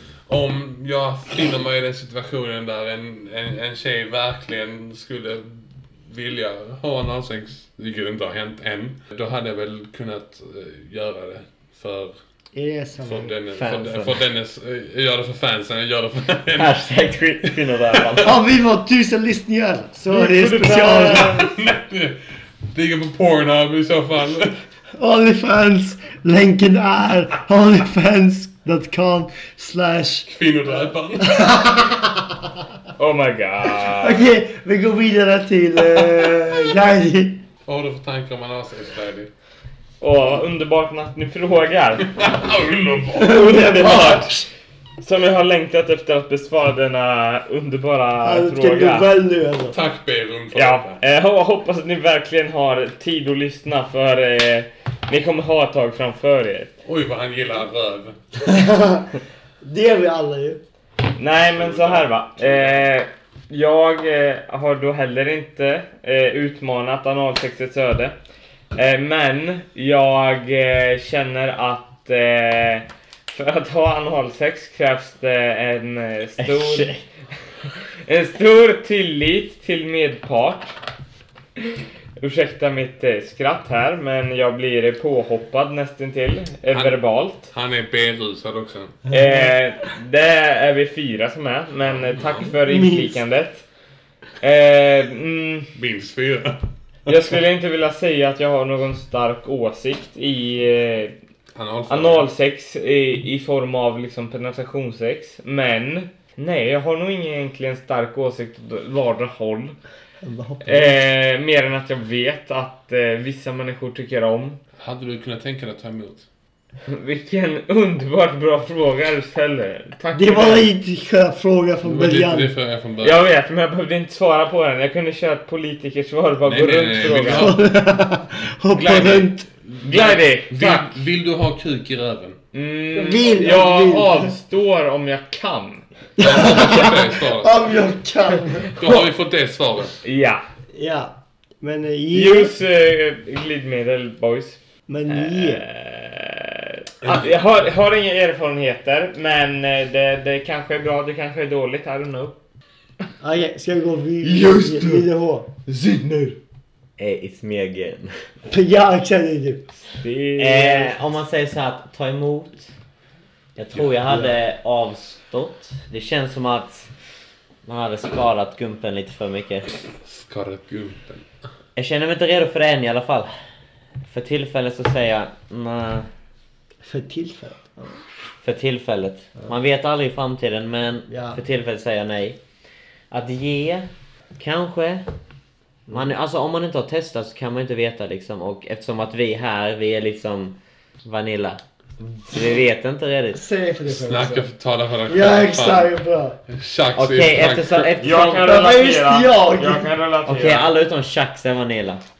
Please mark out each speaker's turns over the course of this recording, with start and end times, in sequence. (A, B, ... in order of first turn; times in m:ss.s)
0:00.3-0:12.2 A
0:12.5-0:13.3 B
0:13.0-0:16.8 A
0:13.5-0:14.2 C
0:16.5-0:18.3 C
0:17.5-0:18.2 A
0:18.2-0:21.5 B
0:20.1-0:21.5 D
0:21.2-0:22.2 A
0:22.7-0:24.6 A
0:25.0-0:30.3 B
0:30.3-0:31.6 A
0:31.2-0:32.6 B
0:33.0-0:34.2 D
0:33.9-0:37.4 B
0:37.6-0:39.3 A
0:40.0-0:42.1 D
0:42.0-0:43.5 A
0:43.2-0:44.5 B
0:43.2-0:44.3 D
0:45.0-0:49.1 D
0:48.2-0:49.8 B
0:49.7-0:51.0 A
0:50.5-0:56.8 D
0:56.8-0:58.2 A
0:58.4-1:00.6 B
1:01.2-1:08.1 D
1:01.5-1:02.9 A
1:08.7-1:16.9 D
1:16.4-1:17.0 C
1:18.0-1:20.7 D
1:22.2-1:27.5 D
1:26.7-1:27.0 A
1:27.5-1:29.0 A
1:29.1-1:33.6 D
1:31.8-1:32.5 A
1:32.6-1:33.2 B
1:34.4-1:35.7 D
1:35.7-1:36.6 A
1:37.1-1:41.1 D
1:41.5-1:42.3 A
1:41.9-1:49.8 D
1:50.2-1:51.0 B
1:50.6-1:54.6 D
1:54.8-1:56.2 A
1:56.9-2:00.7 D
2:00.1-2:02.5 B
2:01.8-2:03.2 A
2:03.0-2:07.5 D
2:06.4-2:07.6 A
2:07.3-2:09.5 B
2:08.8-2:12.4 A
2:09.8-2:11.0 D
2:12.5-2:15.8 D
2:12.9-2:14.3 B
2:16.2-2:18.8 B
2:16.2-2:17.6 A
2:18.7-2:20.0 A
2:20.0-2:20.4 D
2:20.7-2:22.6 B
2:22.1-2:32.4 D
2:24.9-2:25.6 B
2:27.0-2:27.3 A
2:33.2-2:35.5 B
2:34.2-2:35.0 D
2:35.6-2:36.4 D
2:37.0-2:38.1 C
2:38.5-2:39.7 B
2:39.9-2:41.0 D
2:40.4-2:42.7 C
2:43.6-2:46.9 C
2:44.1-2:44.3 B
2:47.6-2:49.7 C
2:50.0-2:51.2 A
2:51.8-2:53.3 C
2:54.1-2:56.1 C
2:56.8-2:58.0 B
2:58.4-3:02.4 C
3:01.1-3:01.4 B
3:03.1-3:05.0 C
3:05.9-3:06.1 B
3:05.9-3:13.4 C
3:13.3-3:14.5 B
3:13.9-3:15.9 A
3:15.1-3:16.4 B
3:16.5-3:17.9 A
3:17.0-3:18.5 C
3:18.0-3:20.7 D
3:18.4-3:19.9 B
3:20.2-3:22.0 C